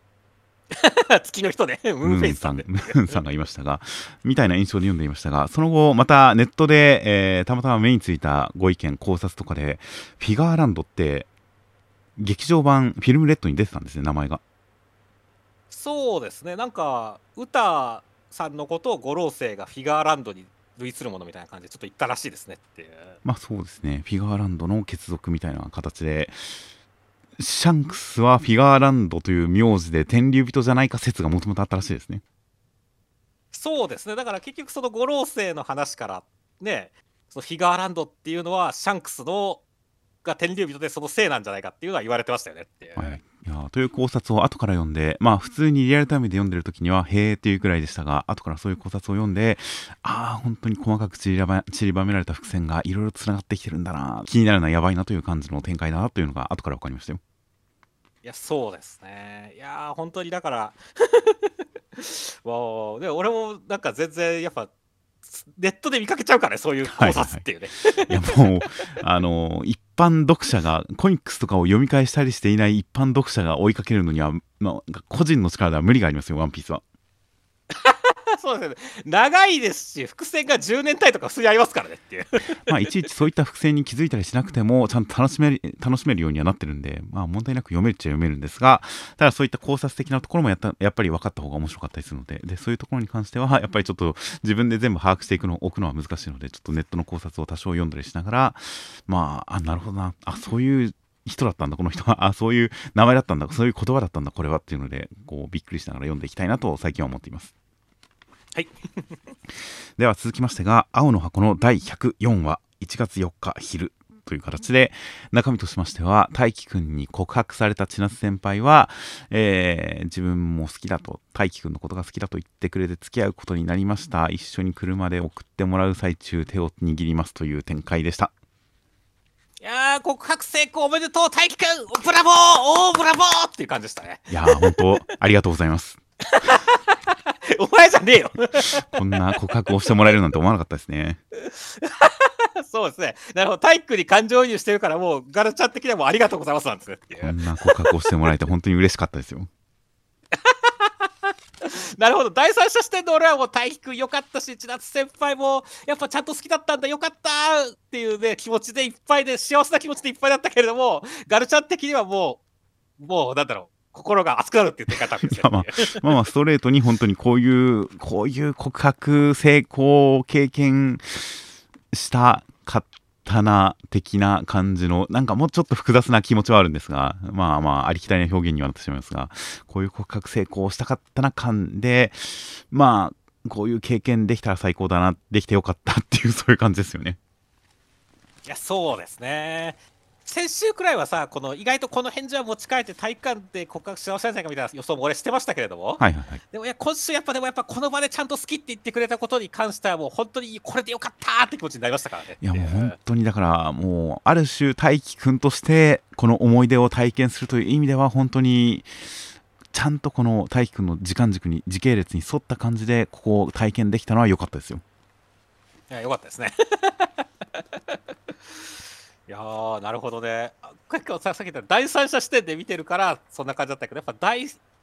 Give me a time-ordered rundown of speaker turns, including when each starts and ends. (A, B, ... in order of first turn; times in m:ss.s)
0:00.7-0:03.2 A
0:02.0-0:11.3 B
0:12.2-0:14.4 B
0:15.7-0:23.2 A
0:23.2-0:26.6 B
0:27.4-0:32.2 B
0:33.5-0:39.6 A
0:40.2-0:43.2 A
0:43.0-0:57.2 B
0:58.2-1:04.7 A
1:05.2-1:09.0 A
1:06.9-1:16.8 B
1:17.7-1:22.6 A
1:22.6-1:47.5 B
1:48.5-1:49.4 A
1:50.0-2:08.3 B
2:09.6-2:15.1 A
2:14.3-2:16.0 B
2:16.3-2:20.0 A
2:18.6-2:21.2 B
2:21.4-2:28.3 A
2:27.2-2:29.5 B
2:30.3-2:42.4 A
2:43.0-2:46.1 A
2:45.2-3:07.2 B
3:08.4-3:23.0 A
3:16.0-3:16.4 B
3:22.4-3:34.8 B
3:35.9-3:38.0 A
3:39.3-3:44.6 A